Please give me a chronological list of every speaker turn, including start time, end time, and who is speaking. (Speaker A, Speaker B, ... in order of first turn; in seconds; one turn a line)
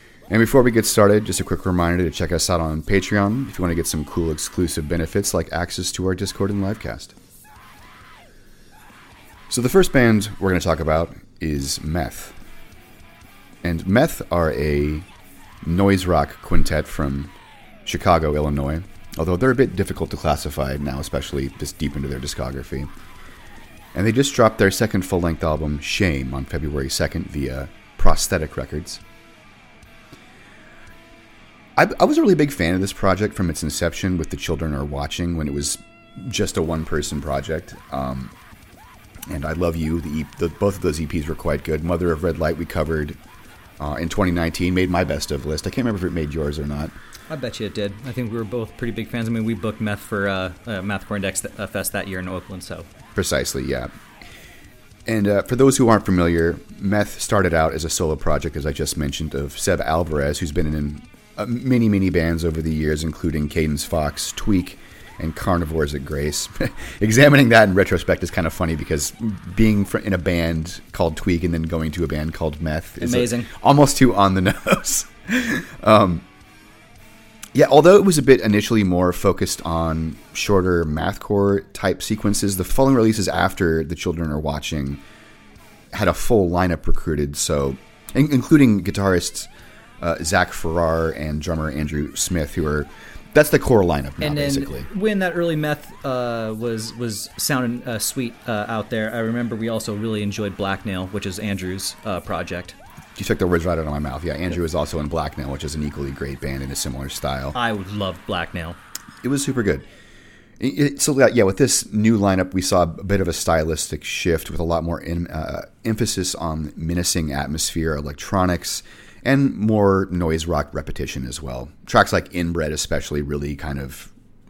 Speaker A: 0.3-7.2
Speaker A: 9.5-12.4
Speaker A: 13.6-15.1
Speaker A: 15.6-17.3
Speaker A: 17.9-22.9
Speaker A: 23.9-29.0
Speaker A: 31.8-38.3
Speaker A: 39.3-43.2
Speaker A: 43.8-46.9
Speaker B: 47.3-52.9
Speaker A: 53.2-53.9
Speaker A: 55.1-76.2
Speaker B: 73.0-73.5
Speaker A: 77.5-85.0
Speaker A: 85.9-94.9
Speaker B: 94.2-102.8
Speaker A: 103.2-107.6
Speaker B: 107.5-108.8
Speaker A: 109.2-109.9
Speaker A: 110.6-124.1